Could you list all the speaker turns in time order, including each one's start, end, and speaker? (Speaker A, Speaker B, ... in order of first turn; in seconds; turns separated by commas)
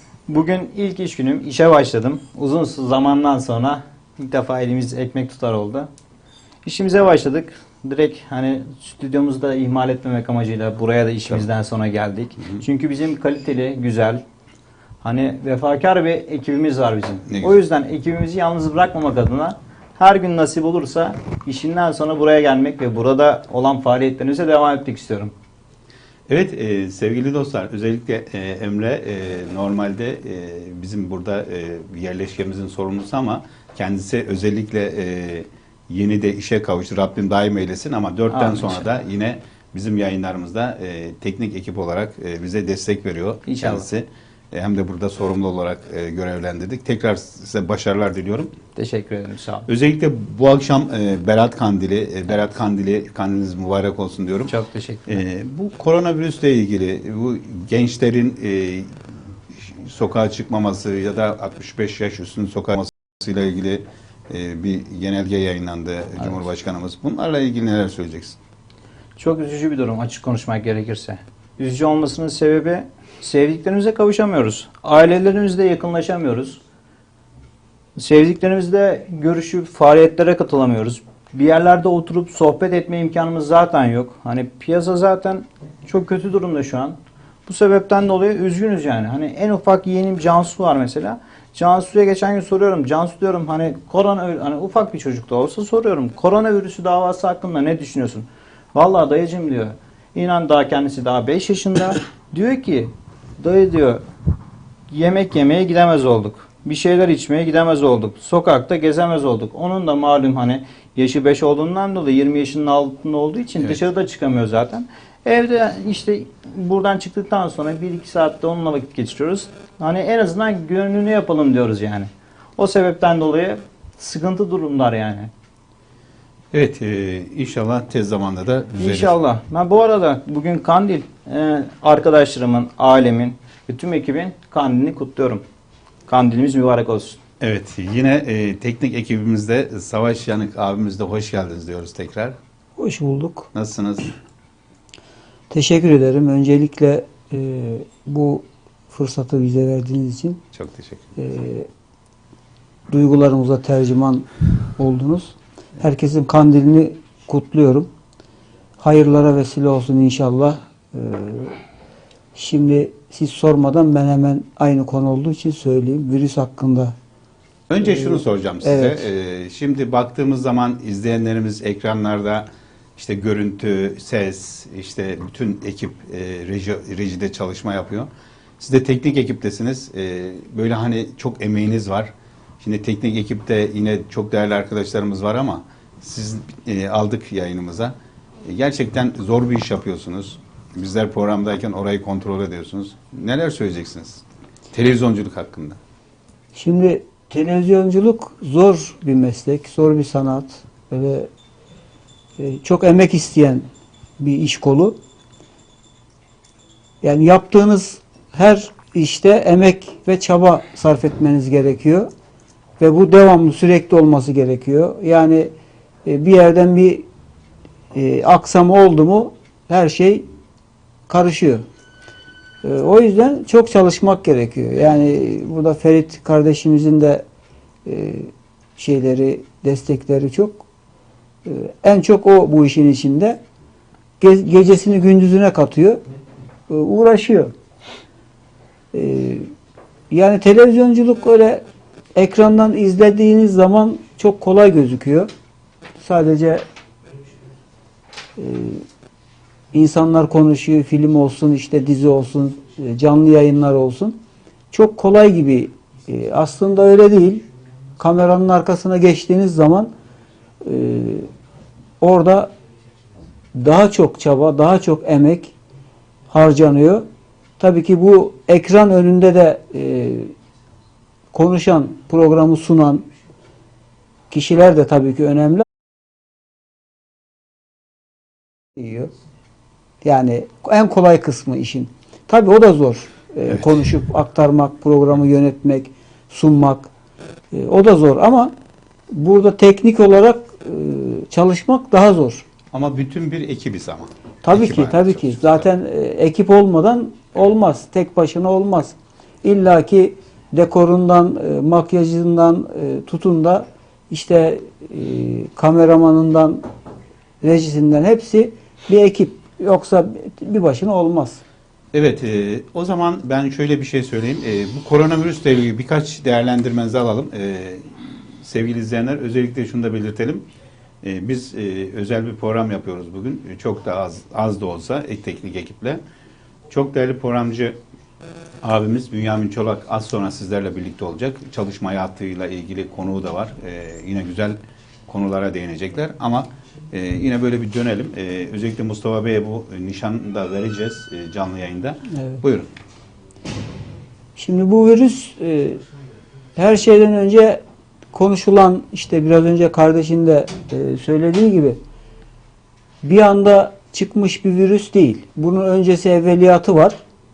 Speaker A: 0.3-5.9, Speaker A: 6.7-14.2, Speaker A: 15.0-25.3, Speaker B: 17.3-17.6, Speaker B: 26.3-48.5, Speaker A: 38.3-38.9, Speaker A: 43.5-43.9, Speaker A: 48.8-49.7, Speaker B: 49.7-54.5, Speaker A: 54.5-55.2, Speaker B: 55.1-58.9, Speaker B: 59.5-68.4, Speaker A: 69.2-76.6, Speaker A: 78.0-104.0, Speaker A: 104.9-125.3, Speaker B: 126.5-129.2, Speaker A: 128.8-135.4, Speaker A: 136.1-137.2, Speaker B: 137.4-142.4, Speaker C: 142.8-143.5, Speaker B: 143.5-144.1, Speaker C: 145.5-150.4, Speaker B: 150.5-151.1, Speaker C: 151.2-151.7, Speaker C: 152.9-157.9, Speaker C: 158.8-161.6, Speaker C: 162.3-166.9, Speaker B: 167.7-195.8, Speaker C: 167.8-169.1, Speaker C: 196.6-201.3, Speaker C: 202.4-203.7, Speaker C: 204.2-204.9, Speaker C: 207.0-212.1, Speaker C: 212.8-215.5, Speaker C: 216.1-217.0, Speaker C: 217.9-220.2, Speaker C: 221.1-221.6, Speaker C: 222.6-227.2, Speaker C: 227.8-230.6, Speaker C: 231.4-233.4, Speaker C: 234.2-236.0, Speaker C: 236.7-237.5, Speaker C: 238.9-239.4, Speaker C: 240.1-241.6, Speaker C: 242.2-245.3, Speaker C: 246.0-246.6, Speaker C: 248.4-248.8, Speaker C: 249.7-254.2, Speaker C: 254.7-257.4, Speaker C: 258.0-259.9, Speaker C: 260.6-261.3, Speaker C: 262.0-262.5, Speaker C: 263.6-265.5, Speaker C: 266.3-267.1, Speaker C: 267.6-270.3, Speaker C: 271.3-273.1, Speaker C: 274.3-275.6, Speaker C: 278.8-279.1, Speaker C: 280.0-286.9, Speaker C: 287.5-288.5, Speaker C: 289.1-292.4, Speaker B: 292.7-295.7, Speaker C: 294.4-306.6, Speaker C: 307.4-311.4, Speaker B: 311.9-320.4, Speaker B: 321.0-326.0, Speaker B: 326.7-327.8, Speaker B: 328.6-342.7, Speaker C: 344.4-345.8, Speaker C: 346.6-347.6, Speaker C: 348.1-351.8, Speaker C: 353.0-357.0